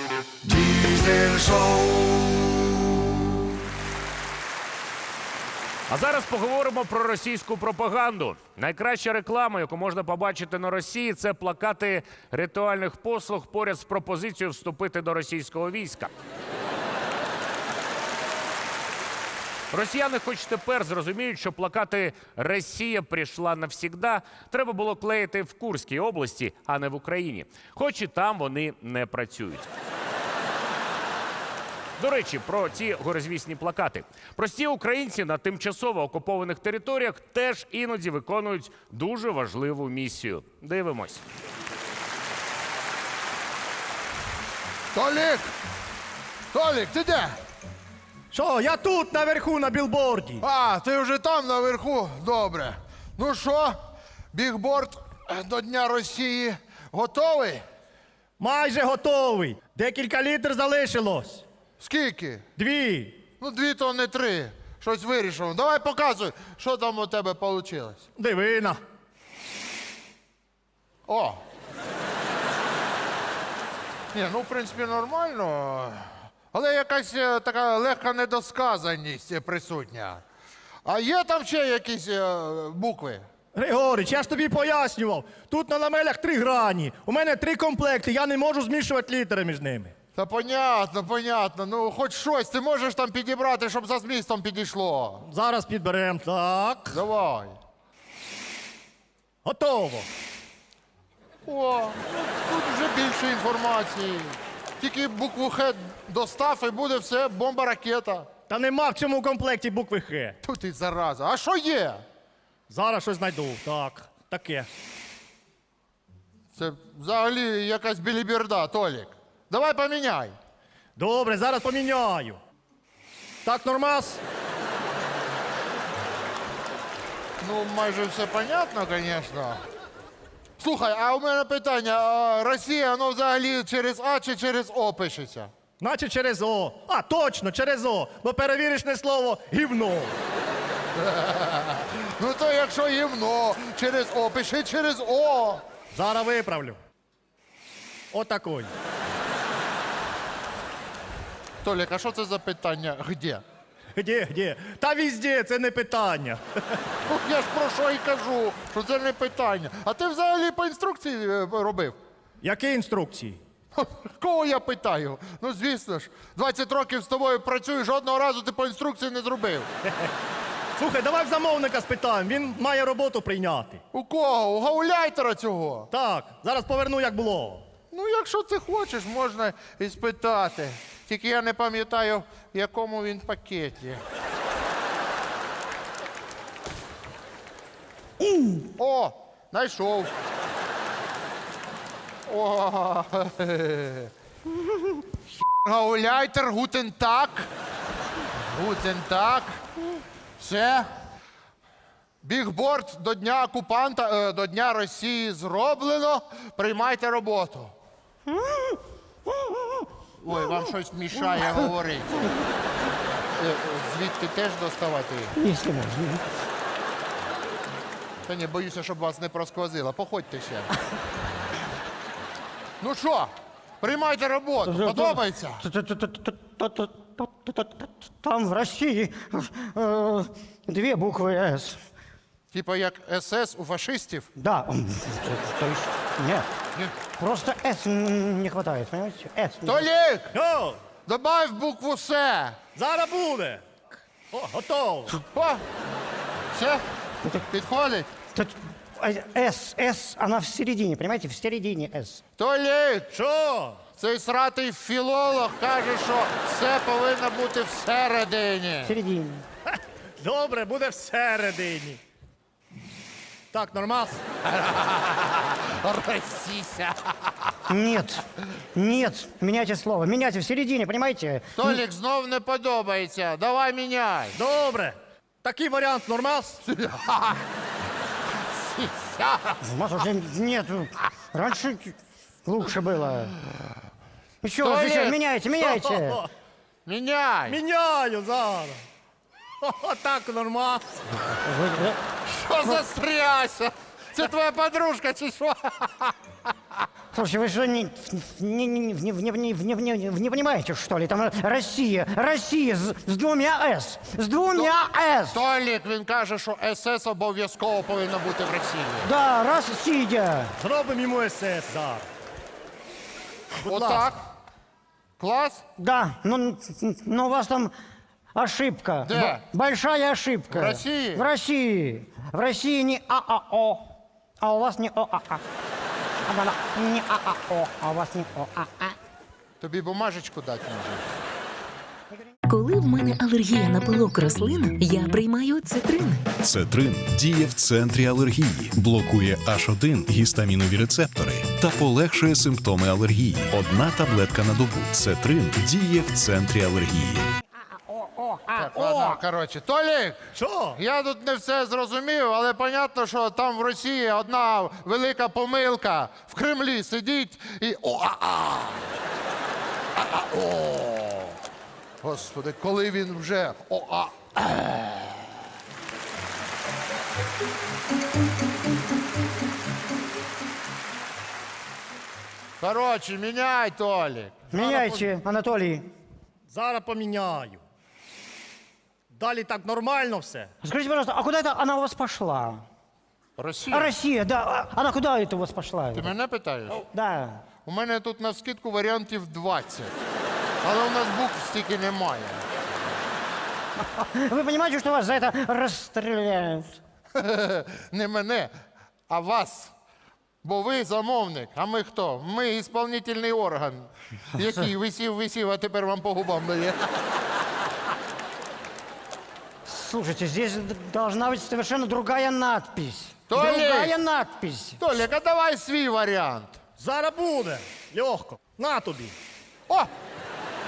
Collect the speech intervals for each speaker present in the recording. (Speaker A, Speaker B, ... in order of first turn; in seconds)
Speaker A: 5.9-16.1, 19.7-29.7, 32.0-41.2
Speaker B: 44.9-45.5, 46.5-47.4, 50.4-53.8, 54.3-57.6, 61.8-62.5, 63.4-68.0, 71.1-71.4, 74.1-80.2, 80.8-83.2, 90.1-95.2, 96.9-97.5, 101.5-108.3, 110.4-112.0, 116.5-120.4, 127.4-129.6, 130.6-135.5, 141.0-145.6, 151.6-153.4, 157.1-162.0, 163.8-169.7, 173.9-175.9, 177.9-184.0, 188.8-190.1, 192.3-194.1, 195.6-197.5, 198.5-199.6, 200.4-200.9, 202.2-207.7, 210.2-212.2, 213.4-215.3, 218.3-220.7, 222.8-225.6, 232.5-234.3, 239.7-240.3, 241.1-242.6, 245.2-245.6, 246.5-246.8, 247.5-248.1, 252.4-253.1, 254.0-258.9, 264.4-267.5, 271.5-274.4, 276.6-277.4, 278.5-279.6, 284.6-285.2, 286.9-287.6, 292.3-296.1, 305.3-309.1, 313.6-314.2, 315.2-315.6, 319.0-319.4, 320.5-321.2, 329.6-331.1, 348.6-358.8, 360.0-361.4, 362.0-365.2, 372.6-374.4, 383.4-383.9, 385.9-386.8, 387.6-390.0, 390.6-392.4, 397.1-398.5, 399.1-399.7, 400.4-406.9, 413.3-413.9, 414.8-416.6
Speaker C: 48.3-50.4, 58.4-61.4, 62.6-63.2, 68.2-68.8, 83.5-89.9, 95.2-97.0, 99.4-100.1, 108.5-110.4, 112.7-114.7, 121.0-122.4, 123.4-124.2, 135.8-140.2, 145.9-146.8, 148.1-148.7, 154.0-156.4, 162.4-163.4, 170.8-173.8, 175.9-177.7, 240.3-240.8, 242.8-243.6, 244.3-245.2, 253.1-253.8, 259.7-262.0, 263.5-264.2, 274.3-276.6, 285.6-286.3, 287.5-288.8, 289.6-290.9, 310.6-312.1, 313.6-314.1, 350.3-350.8, 374.5-375.1, 376.5-377.6, 379.1-380.5, 416.8-419.1
Speaker D: 188.2-188.7, 208.3-208.8, 215.3-216.2, 224.7-231.8, 234.4-236.5, 237.2-239.9, 248.3-252.2, 258.8-259.4, 267.7-268.2, 268.8-271.8, 279.6-283.4, 284.4-286.2, 291.4-292.0, 297.1-305.4, 309.0-310.5, 315.8-317.7, 318.4-323.8, 324.4-325.4, 326.2-328.9, 347.9-349.2, 374.5-375.9, 380.6-382.6, 383.7-386.1, 386.7-387.4, 393.9-396.8, 409.6-414.8
Speaker E: 332.5-336.2
Speaker F: 336.4-347.3